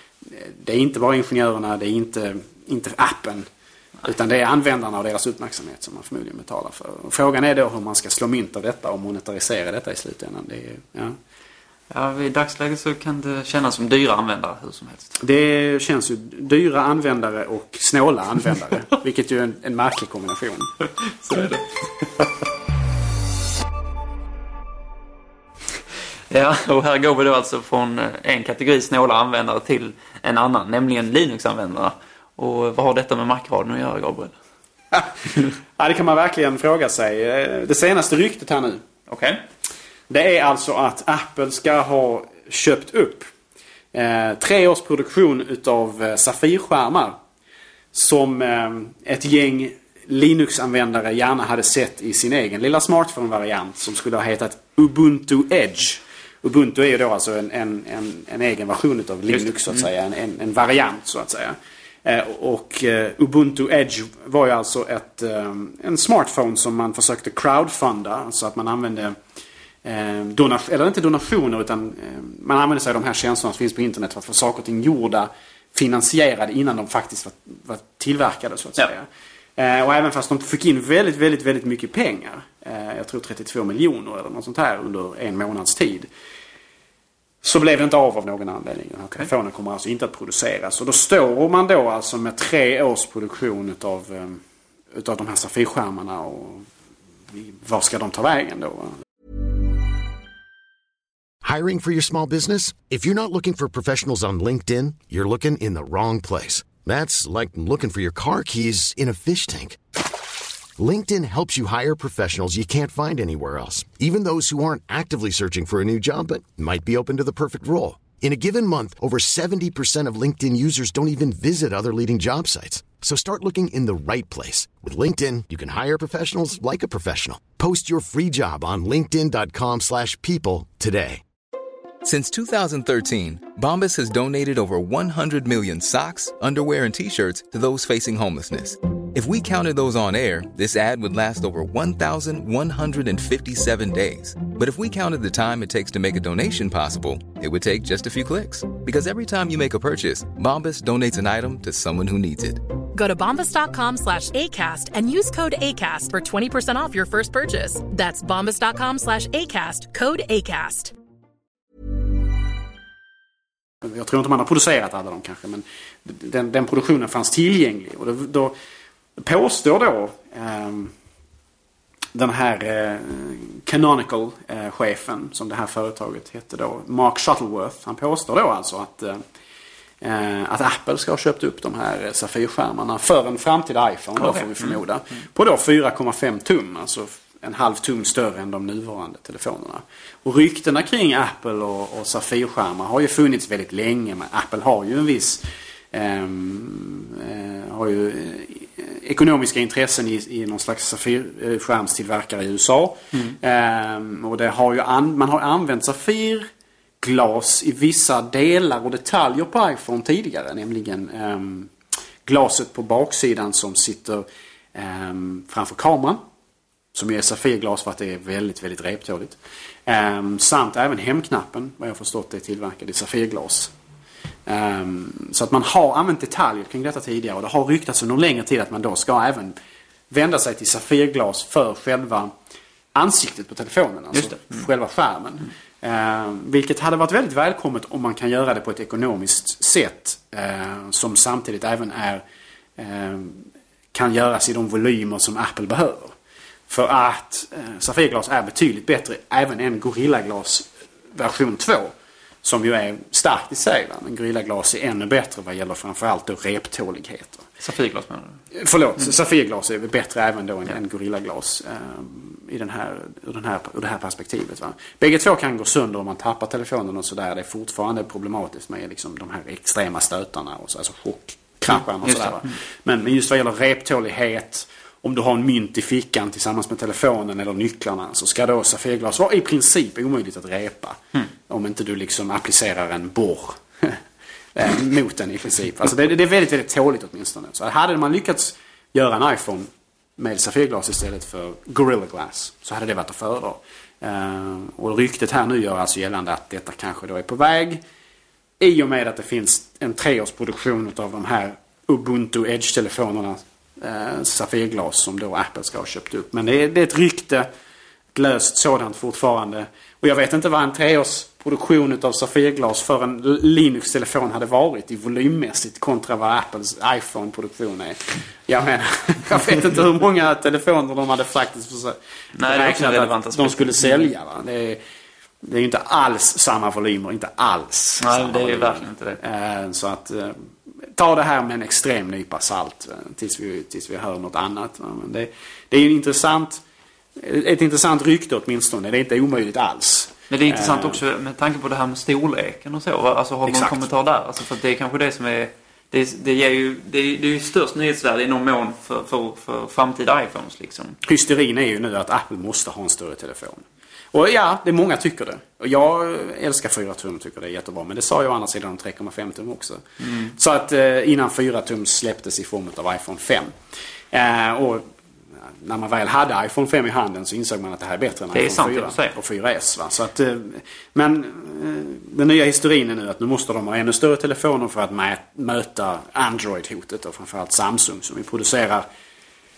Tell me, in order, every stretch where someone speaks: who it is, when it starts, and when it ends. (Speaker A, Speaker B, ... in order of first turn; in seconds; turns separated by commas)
Speaker A: 0.2-3.5, Speaker A: 4.0-11.2, Speaker B: 11.9-15.2, Speaker A: 15.2-20.7, Speaker B: 21.1-22.2, Speaker B: 26.3-34.4, Speaker A: 35.8-38.8, Speaker B: 39.1-39.4, Speaker A: 40.1-43.3, Speaker A: 43.9-47.2, Speaker A: 47.9-69.2, Speaker B: 59.3-59.9, Speaker A: 69.8-86.1, Speaker A: 87.4-94.4, Speaker A: 94.9-96.6, Speaker A: 97.3-99.0, Speaker C: 101.4-109.8, Speaker C: 110.8-131.2, Speaker D: 132.0-152.6, Speaker E: 152.9-160.9, Speaker A: 163.8-168.5, Speaker A: 169.2-170.9, Speaker A: 172.1-179.2, Speaker A: 180.0-206.5, Speaker B: 184.2-184.8, Speaker A: 207.0-211.7, Speaker A: 212.2-216.2, Speaker A: 216.9-223.7, Speaker A: 224.4-229.5, Speaker A: 230.1-232.3, Speaker A: 232.9-242.2, Speaker B: 234.1-234.6, Speaker A: 242.8-246.1, Speaker A: 246.7-257.4, Speaker B: 257.6-258.4, Speaker A: 258.5-284.0, Speaker B: 272.0-272.5, Speaker A: 284.5-297.8, Speaker A: 298.6-307.5, Speaker A: 308.1-324.8, Speaker B: 322.4-324.1, Speaker A: 325.4-336.6, Speaker B: 328.0-329.2, Speaker A: 337.2-341.0, Speaker B: 340.3-351.0, Speaker A: 343.4-343.9, Speaker A: 351.0-359.8, Speaker B: 360.0-360.3, Speaker A: 360.3-363.5, Speaker A: 364.1-364.9, Speaker A: 365.6-378.9, Speaker B: 368.3-369.1